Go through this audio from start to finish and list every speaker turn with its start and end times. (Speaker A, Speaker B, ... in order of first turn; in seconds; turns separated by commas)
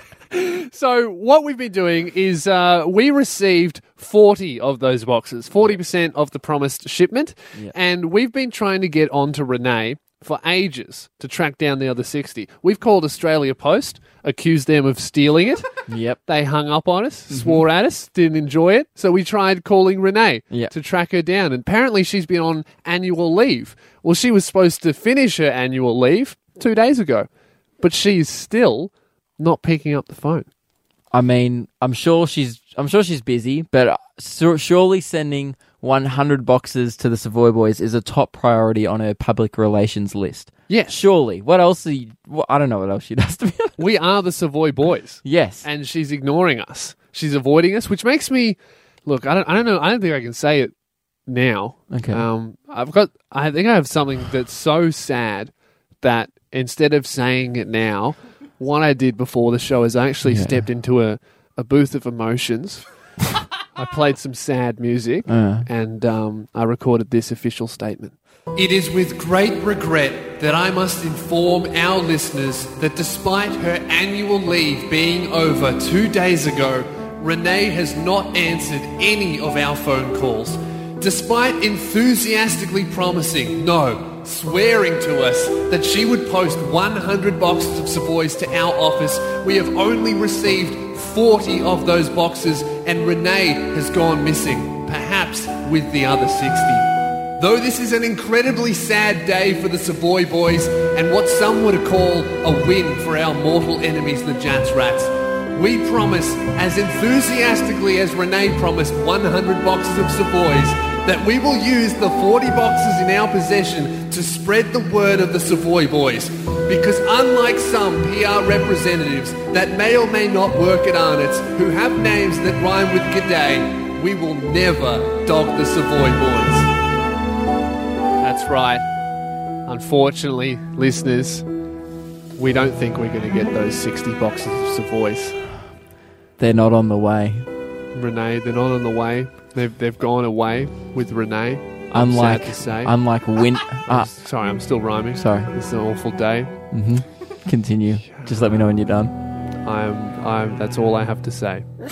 Speaker A: 0.3-15.7, Speaker B: 15.9-16.2, Speaker A: 16.3-27.3, Speaker B: 17.3-17.6, Speaker A: 27.8-30.5, Speaker B: 31.1-43.8, Speaker A: 40.7-41.0, Speaker A: 43.8-50.7, Speaker B: 45.2-45.6, Speaker A: 51.3-55.5, Speaker B: 51.9-52.2, Speaker A: 56.0-62.9, Speaker B: 60.3-60.6, Speaker A: 63.8-126.7, Speaker B: 65.3-65.7, Speaker A: 128.2-128.8, Speaker A: 129.7-131.5, Speaker A: 132.4-135.4, Speaker B: 136.4-137.5, Speaker A: 137.9-142.9, Speaker B: 141.9-144.1, Speaker A: 143.8-146.5, Speaker B: 145.2-145.5, Speaker B: 146.7-149.1, Speaker A: 148.1-148.6, Speaker A: 149.7-151.7